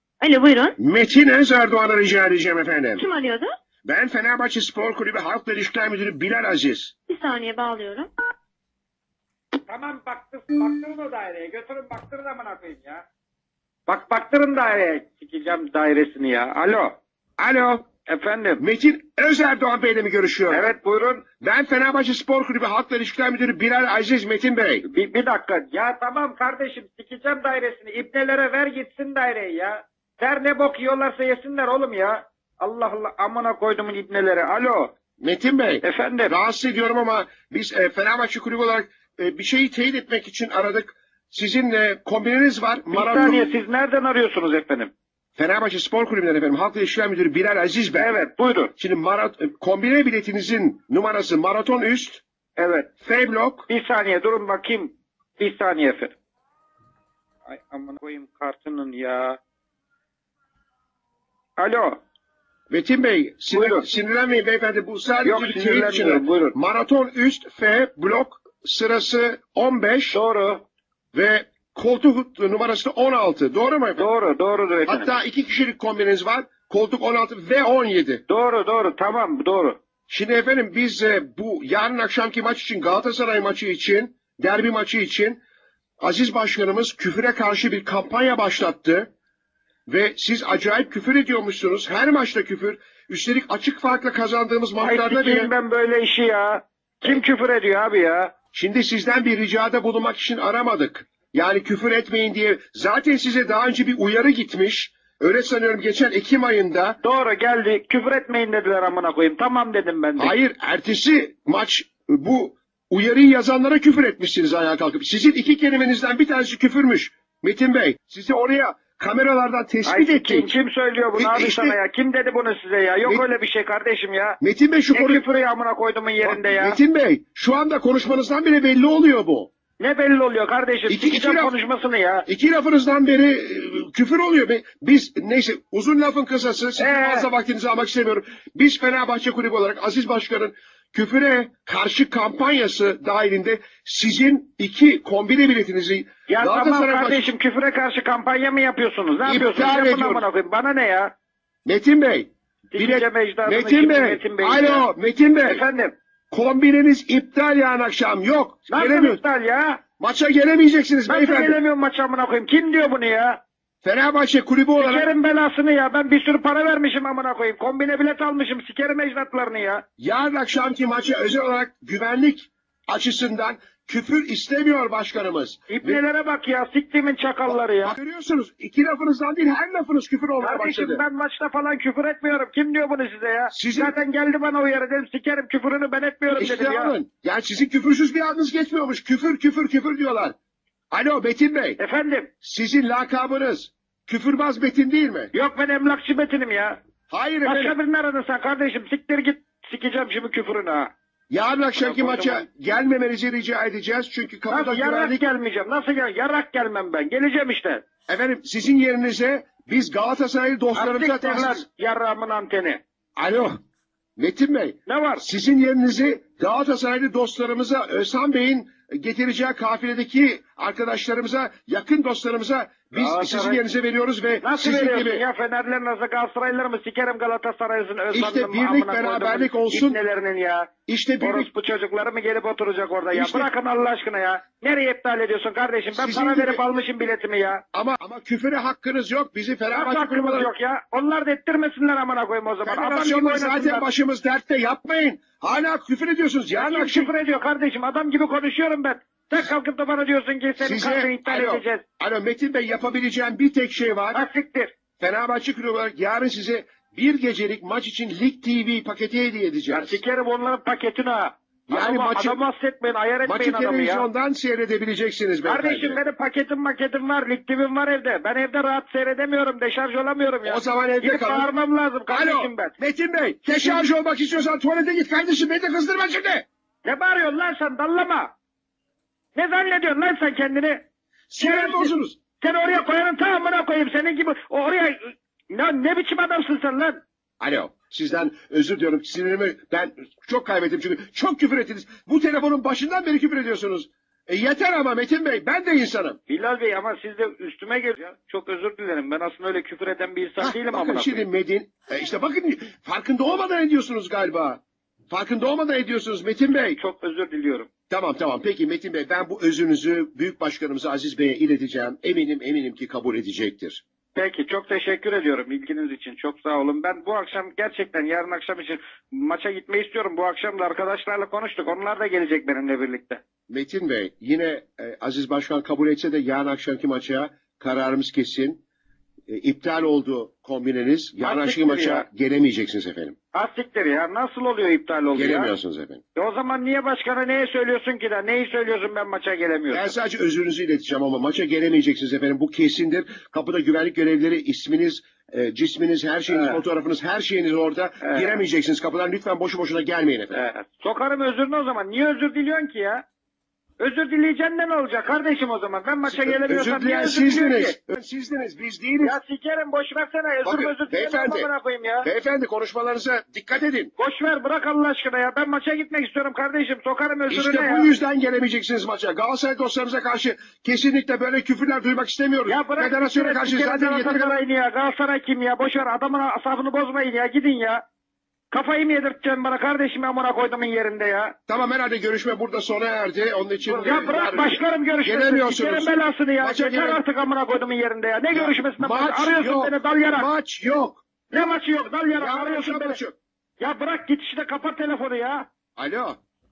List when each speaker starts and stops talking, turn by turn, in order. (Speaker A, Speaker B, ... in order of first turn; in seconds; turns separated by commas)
Speaker A: 0.2-0.8, Speaker B: 0.8-3.1, Speaker A: 3.0-3.5, Speaker B: 3.8-6.9, Speaker A: 7.1-8.1, Speaker C: 9.7-13.0, Speaker C: 13.9-17.0, Speaker B: 17.4-17.9, Speaker C: 18.1-18.6, Speaker B: 18.6-20.7, Speaker C: 20.5-21.2, Speaker B: 21.4-24.8, Speaker C: 24.8-34.9, Speaker B: 35.2-43.6, Speaker C: 35.8-36.4, Speaker C: 42.9-44.9, Speaker B: 45.4-48.2, Speaker C: 48.0-48.7, Speaker B: 48.8-52.2, Speaker C: 52.5-52.9, Speaker B: 53.0-53.7, Speaker C: 53.7-56.1, Speaker C: 57.5-59.4, Speaker C: 61.6-62.0, Speaker B: 62.7-70.2, Speaker C: 63.5-63.9, Speaker C: 65.2-66.6, Speaker C: 70.1-70.7, Speaker B: 71.1-74.1, Speaker C: 74.0-75.1, Speaker B: 74.9-78.2, Speaker C: 78.3-79.8, Speaker B: 80.1-85.4, Speaker B: 86.0-89.1, Speaker B: 89.9-95.5, Speaker C: 94.8-98.3, Speaker B: 98.5-107.0, Speaker C: 107.0-110.3, Speaker B: 110.2-120.5, Speaker C: 119.8-124.4, Speaker B: 121.2-121.8, Speaker B: 124.4-125.2, Speaker C: 124.9-126.8, Speaker B: 126.2-129.5, Speaker C: 129.8-132.3, Speaker B: 130.9-131.5, Speaker B: 132.3-147.3, Speaker C: 136.8-137.3, Speaker C: 146.3-151.1, Speaker B: 149.2-150.2, Speaker B: 151.6-155.6, Speaker C: 152.7-154.9, Speaker C: 155.4-155.9, Speaker B: 156.3-159.2, Speaker C: 158.7-159.8, Speaker B: 160.0-161.6, Speaker C: 161.1-163.4, Speaker B: 163.8-165.1, Speaker C: 164.8-169.8, Speaker B: 170.0-176.0, Speaker C: 175.7-177.9, Speaker B: 177.5-181.0, Speaker C: 180.4-186.9, Speaker B: 183.5-183.9, Speaker B: 186.3-190.3, Speaker B: 190.9-191.8, Speaker C: 191.8-192.3, Speaker B: 192.4-195.3, Speaker C: 195.3-196.8, Speaker B: 197.1-197.8, Speaker C: 197.4-200.9, Speaker B: 201.3-205.2, Speaker C: 201.8-202.5, Speaker C: 204.5-207.8, Speaker B: 208.1-211.6, Speaker C: 210.7-212.8, Speaker B: 213.2-213.6, Speaker B: 214.2-225.2, Speaker C: 214.8-215.2, Speaker C: 222.9-223.6, Speaker C: 224.4-237.6, Speaker B: 228.1-230.0, Speaker B: 230.9-231.5, Speaker B: 233.1-233.5, Speaker B: 235.9-236.6, Speaker B: 237.7-240.5, Speaker C: 239.7-243.9, Speaker B: 242.6-247.1, Speaker C: 246.5-251.8, Speaker B: 250.6-254.2, Speaker C: 254.1-254.7, Speaker B: 255.0-260.0, Speaker C: 259.7-264.1, Speaker B: 261.7-262.4, Speaker B: 263.2-266.0, Speaker C: 265.4-272.7, Speaker B: 270.4-271.5, Speaker B: 272.1-276.4, Speaker C: 273.5-273.9, Speaker C: 276.8-278.3, Speaker C: 279.3-280.8, Speaker B: 281.3-282.2, Speaker C: 281.4-287.0, Speaker B: 287.4-296.2, Speaker C: 296.3-301.2, Speaker B: 300.4-306.8, Speaker C: 306.8-307.7, Speaker B: 307.9-313.8, Speaker C: 314.1-323.2, Speaker B: 323.5-328.6, Speaker B: 329.3-333.2, Speaker C: 331.2-332.1, Speaker C: 333.3-335.6, Speaker B: 335.1-336.0, Speaker C: 336.1-339.9, Speaker B: 339.7-350.4, Speaker C: 346.3-346.6, Speaker C: 348.0-348.4, Speaker C: 350.3-353.1, Speaker C: 353.8-357.8, Speaker B: 356.1-359.2, Speaker C: 359.0-362.1, Speaker B: 360.4-361.5, Speaker B: 362.0-363.9, Speaker C: 364.0-367.9, Speaker B: 367.3-374.4, Speaker C: 372.5-377.8, Speaker C: 378.5-381.4, Speaker B: 381.5-387.0, Speaker C: 383.6-390.3, Speaker B: 388.3-391.6, Speaker C: 391.3-393.0, Speaker B: 392.1-393.2, Speaker C: 393.6-395.5, Speaker B: 395.8-396.2